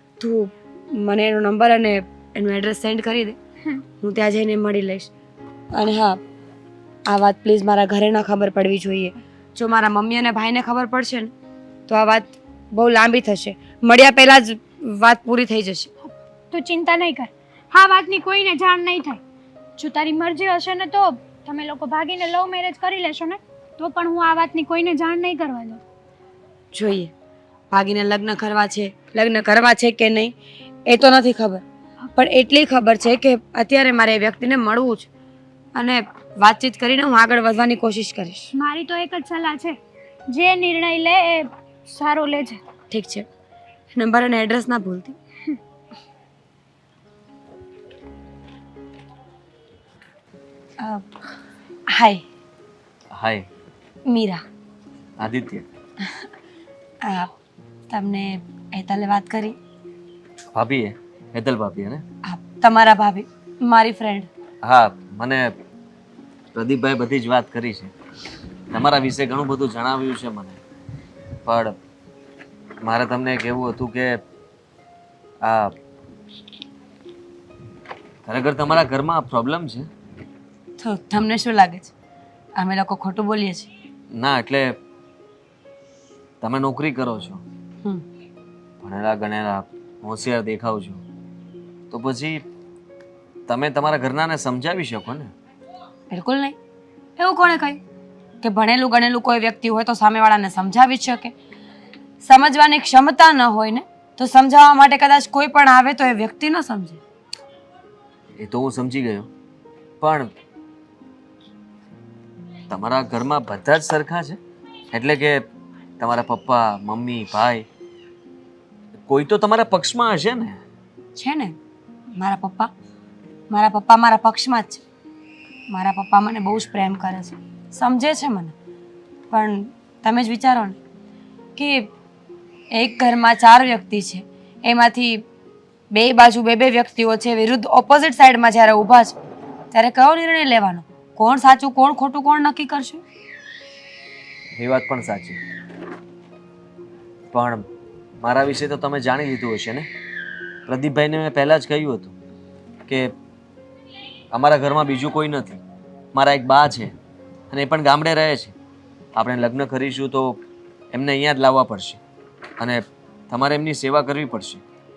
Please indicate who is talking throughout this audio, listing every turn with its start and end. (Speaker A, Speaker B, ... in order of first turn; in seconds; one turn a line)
Speaker A: 0.2-3.4
Speaker A: 4.0-5.1
Speaker A: 5.7-6.2
Speaker A: 7.1-11.3
Speaker A: 11.9-15.9
Speaker B: 16.5-19.2
Speaker B: 19.8-25.8
Speaker A: 26.7-27.1
Speaker A: 27.7-30.3
Speaker A: 30.9-31.6
Speaker A: 32.2-35.1
Speaker A: 35.8-38.5
Speaker B: 38.6-39.8
Speaker B: 40.3-42.6
Speaker A: 42.9-43.3
Speaker A: 44.0-45.2
Speaker A: 50.8-51.1
Speaker A: 51.9-52.2
Speaker C: 53.1-53.5
Speaker A: 54.1-54.4
Speaker C: 55.2-55.7
Speaker A: 57.0-57.3
Speaker A: 57.9-59.6
Speaker C: 60.5-62.0
Speaker A: 62.3-64.3
Speaker C: 64.6-65.5
Speaker C: 66.5-67.9
Speaker C: 68.7-70.6
Speaker C: 71.5-71.8
Speaker C: 72.8-74.2
Speaker C: 75.4-75.7
Speaker C: 78.2-79.9
Speaker A: 80.8-81.9
Speaker A: 82.6-83.7
Speaker C: 84.1-84.8
Speaker C: 86.4-87.4
Speaker C: 88.8-91.0
Speaker C: 91.9-92.5
Speaker C: 93.5-95.3
Speaker A: 96.1-96.6
Speaker A: 97.2-97.8
Speaker A: 98.4-101.3
Speaker A: 102.2-107.0
Speaker C: 108.4-109.3
Speaker C: 110.0-110.3
Speaker C: 112.7-114.4
Speaker C: 114.9-115.5
Speaker C: 116.0-117.7
Speaker C: 119.1-120.6
Speaker A: 121.2-121.6
Speaker A: 122.2-122.7
Speaker A: 123.5-124.8
Speaker A: 125.7-128.5
Speaker A: 129.3-130.8
Speaker A: 131.6-131.9
Speaker A: 132.7-135.2
Speaker A: 135.9-139.2
Speaker A: 139.7-143.0
Speaker C: 144.6-145.4
Speaker C: 147.3-147.7
Speaker C: 148.2-149.9
Speaker C: 150.7-152.1
Speaker C: 152.9-153.1
Speaker C: 154.3-155.6
Speaker C: 156.1-156.9
Speaker C: 157.5-158.5
Speaker C: 159.2-160.4
Speaker C: 160.9-162.0
Speaker C: 162.6-164.6